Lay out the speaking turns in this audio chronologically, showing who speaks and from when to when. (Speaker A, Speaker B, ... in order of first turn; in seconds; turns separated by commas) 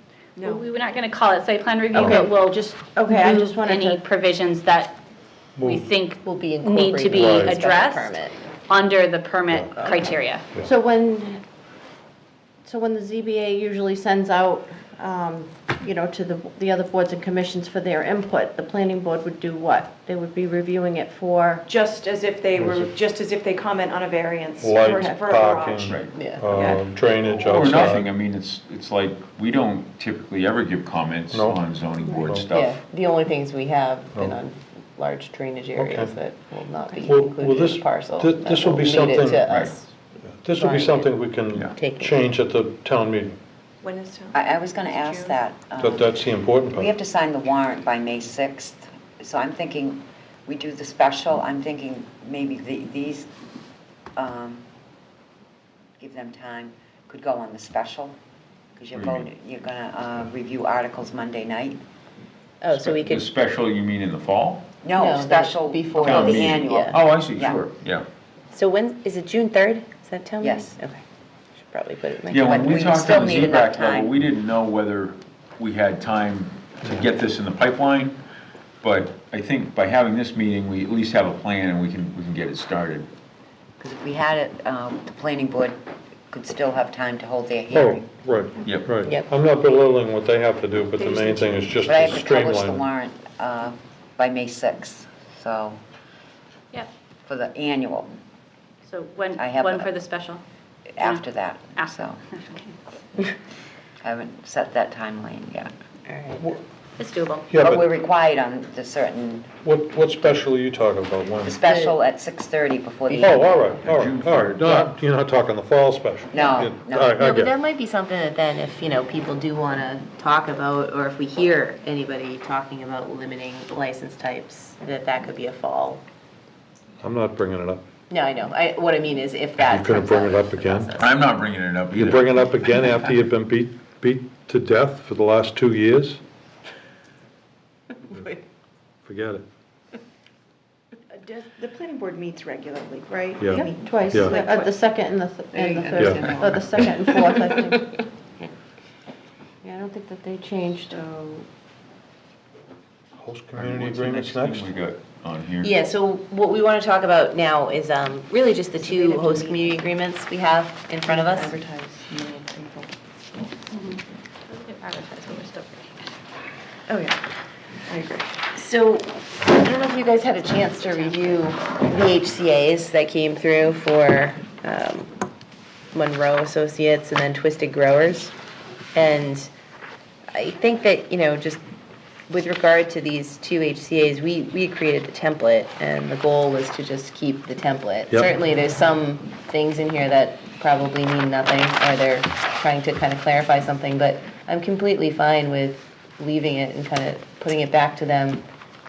Speaker A: 0.4-0.7, Speaker B: 0.4-5.0, Speaker C: 1.9-4.0, Speaker D: 5.6-5.9, Speaker B: 5.6-10.5, Speaker E: 6.2-8.4, Speaker D: 7.1-7.5, Speaker D: 9.5-10.0, Speaker C: 10.6-11.4, Speaker C: 12.7-21.6, Speaker A: 21.7-27.5, Speaker D: 22.6-22.8, Speaker D: 24.6-28.1, Speaker F: 25.9-26.2, Speaker E: 26.1-26.6, Speaker F: 27.4-32.8, Speaker D: 31.3-31.6, Speaker D: 32.2-32.5, Speaker E: 32.5-39.9, Speaker D: 35.8-36.1, Speaker D: 37.0-39.5, Speaker F: 39.4-39.8, Speaker D: 40.3-43.4, Speaker E: 40.6-41.1, Speaker E: 41.8-42.3, Speaker A: 43.8-45.4, Speaker G: 44.3-53.3, Speaker D: 45.8-46.9, Speaker G: 54.1-54.6, Speaker G: 56.0-58.2, Speaker G: 58.8-61.8, Speaker F: 58.9-59.3, Speaker E: 62.6-63.3, Speaker F: 62.7-64.7, Speaker G: 64.8-67.6, Speaker E: 64.9-67.0, Speaker F: 66.1-68.1, Speaker E: 68.5-71.0, Speaker G: 70.4-70.7, Speaker E: 71.6-73.0, Speaker F: 72.3-78.2, Speaker G: 72.5-74.1, Speaker F: 78.8-83.1, Speaker G: 83.8-85.8, Speaker G: 86.3-88.1, Speaker D: 87.7-92.8, Speaker G: 91.0-95.8, Speaker G: 97.2-98.1, Speaker B: 98.9-100.4, Speaker G: 99.3-99.9, Speaker G: 101.0-102.2, Speaker B: 101.0-101.2, Speaker B: 101.8-102.7, Speaker G: 104.0-105.7, Speaker E: 106.1-106.5, Speaker B: 107.0-107.5, Speaker D: 107.5-107.8, Speaker G: 107.6-109.5, Speaker D: 109.6-111.6, Speaker G: 111.4-113.8, Speaker E: 111.6-112.0, Speaker D: 113.2-117.5, Speaker F: 113.8-115.0, Speaker G: 116.3-117.2, Speaker E: 117.2-126.0, Speaker D: 127.0-127.8, Speaker E: 128.1-131.2, Speaker D: 129.6-131.0, Speaker F: 131.0-133.1, Speaker D: 132.0-136.2, Speaker D: 139.1-139.4, Speaker A: 141.1-144.7, Speaker D: 143.4-144.3, Speaker C: 143.8-147.9, Speaker G: 145.5-147.0, Speaker D: 146.0-146.9, Speaker E: 147.2-147.7, Speaker E: 149.6-150.6, Speaker C: 150.6-151.0, Speaker A: 150.9-151.5, Speaker D: 153.2-154.7, Speaker F: 153.6-155.8, Speaker E: 155.6-161.6, Speaker A: 159.0-159.7, Speaker A: 161.1-162.9, Speaker B: 163.7-166.1, Speaker A: 166.9-167.2, Speaker A: 167.9-168.3, Speaker E: 168.6-175.1, Speaker E: 175.9-178.3, Speaker E: 178.9-179.5, Speaker E: 180.3-181.6, Speaker E: 182.3-198.4